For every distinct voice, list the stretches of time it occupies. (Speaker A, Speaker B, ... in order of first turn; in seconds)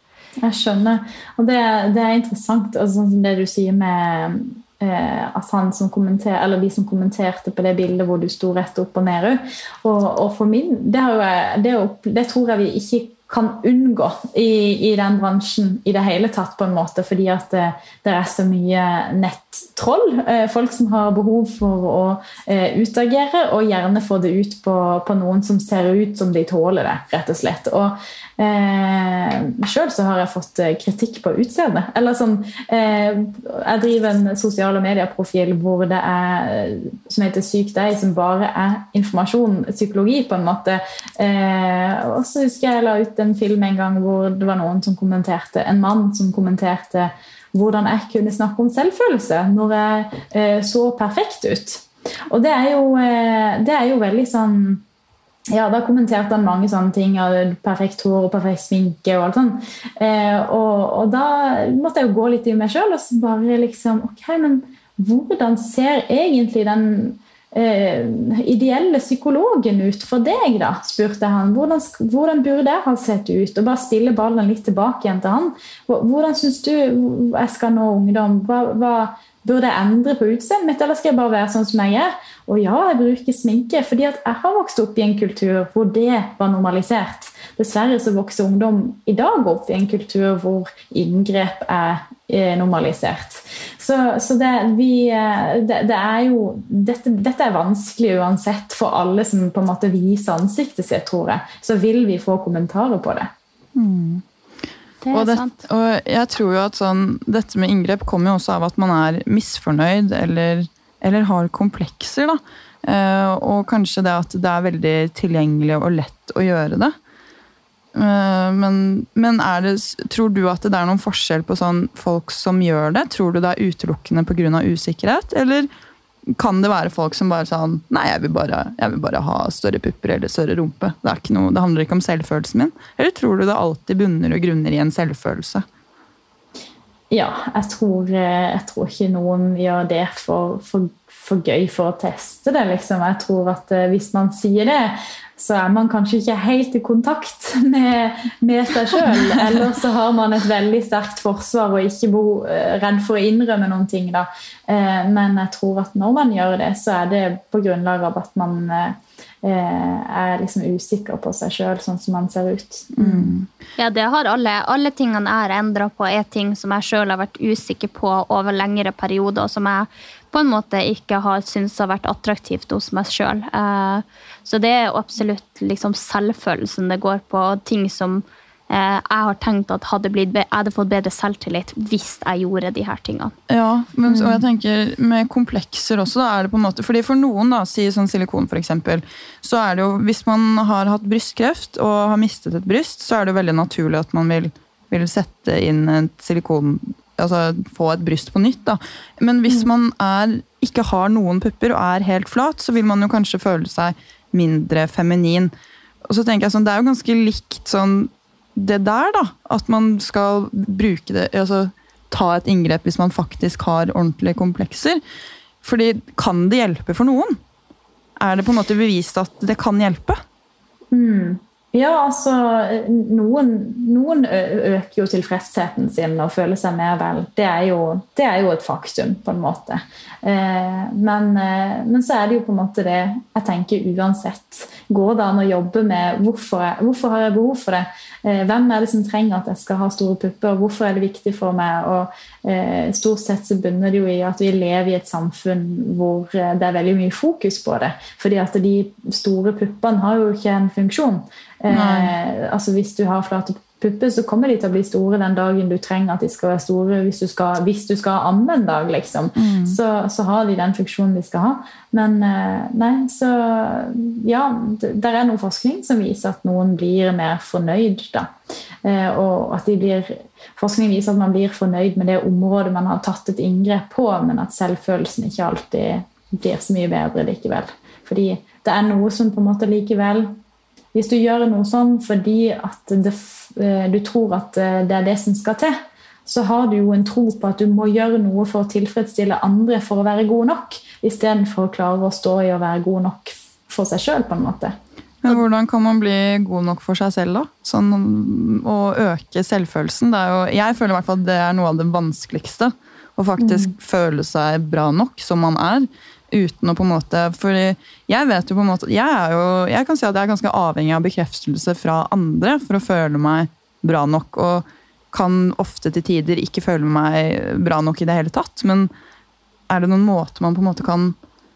Speaker A: 0.4-54.8, 55.5-103.3, 137.1-163.3, 184.1-184.4, 220.9-268.3, 268.8-280.3, 280.9-294.8, 303.4-303.7
Speaker B: 103.8-104.2, 105.1-116.9, 117.9-125.7, 126.3-135.6, 163.0-163.5, 183.5-205.5, 206.1-215.0, 215.6-217.4, 218.2-220.2, 251.7-252.1, 259.4-259.8, 295.2-318.9, 319.7-321.1
Speaker C: 105.0-105.5, 163.8-183.3